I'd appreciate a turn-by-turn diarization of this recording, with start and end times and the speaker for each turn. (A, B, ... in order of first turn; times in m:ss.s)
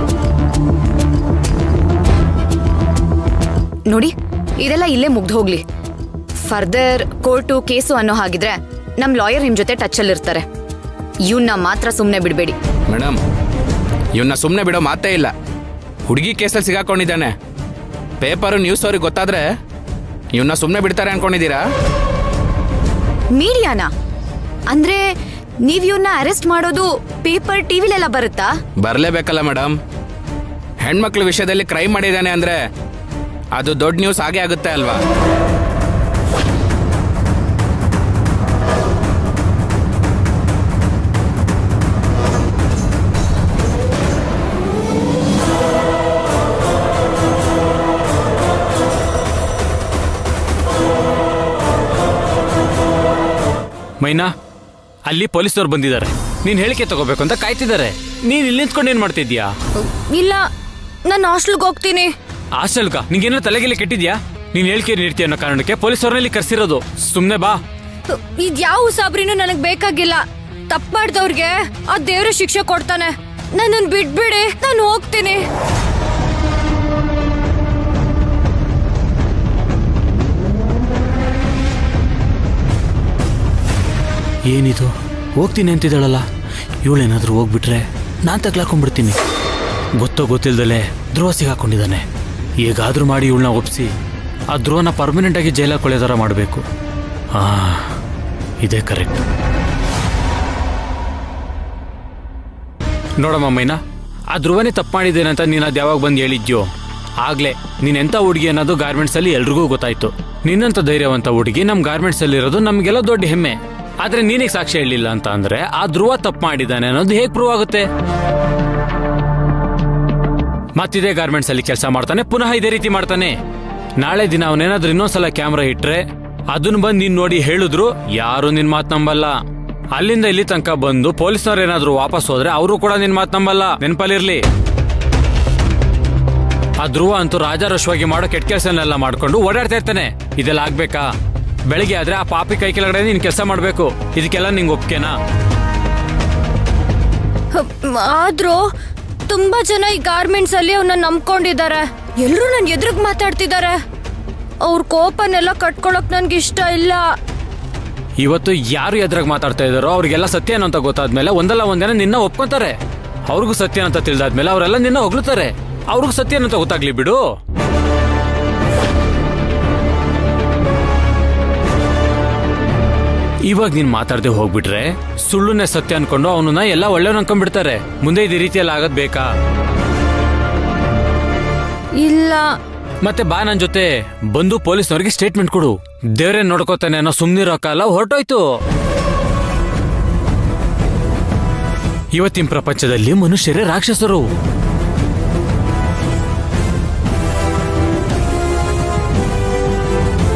0:03.9-0:05.6 A
0:06.4-0:10.4 A
0:11.3-0:12.6 A
0:12.9-0:13.2 B
0:14.2-0:15.3 B
0:16.1-0:17.3 B
0:18.2-0:19.5 B
0:20.3-0:21.6 B
0:23.4-0:23.9 A
0:24.7-0:25.1 A
0:25.6-0:28.5 A
0:28.8-0:29.8 B
0:30.8-0:32.6 B
0:33.6-0:35.0 B
0:54.0-0:54.3 C
0:55.0-0:59.5 C
0:59.8-1:00.4 D
1:01.0-1:02.1 D
1:02.5-1:07.6 C
1:08.1-1:15.4 D
1:24.5-1:26.2 C
1:26.8-1:29.2 C
1:30.0-1:32.0 C
1:32.6-1:33.9 C
1:34.5-1:36.6 C
1:37.3-1:37.9 C
1:38.6-1:39.2 C
1:43.2-1:43.8 C
1:44.3-1:46.7 C
1:47.2-1:57.9 C
2:00.8-2:03.3 C
2:04.0-2:09.3 C
2:09.9-2:14.4 C
2:16.8-2:21.0 C
2:21.7-2:25.2 C
2:27.5-2:28.6 D
2:29.3-2:33.8 D
2:34.6-2:37.0 D
2:38.2-2:47.2 C
2:53.5-2:59.3 C
3:02.0-3:02.5 D
3:03.0-3:08.4 C
3:12.1-3:14.3 C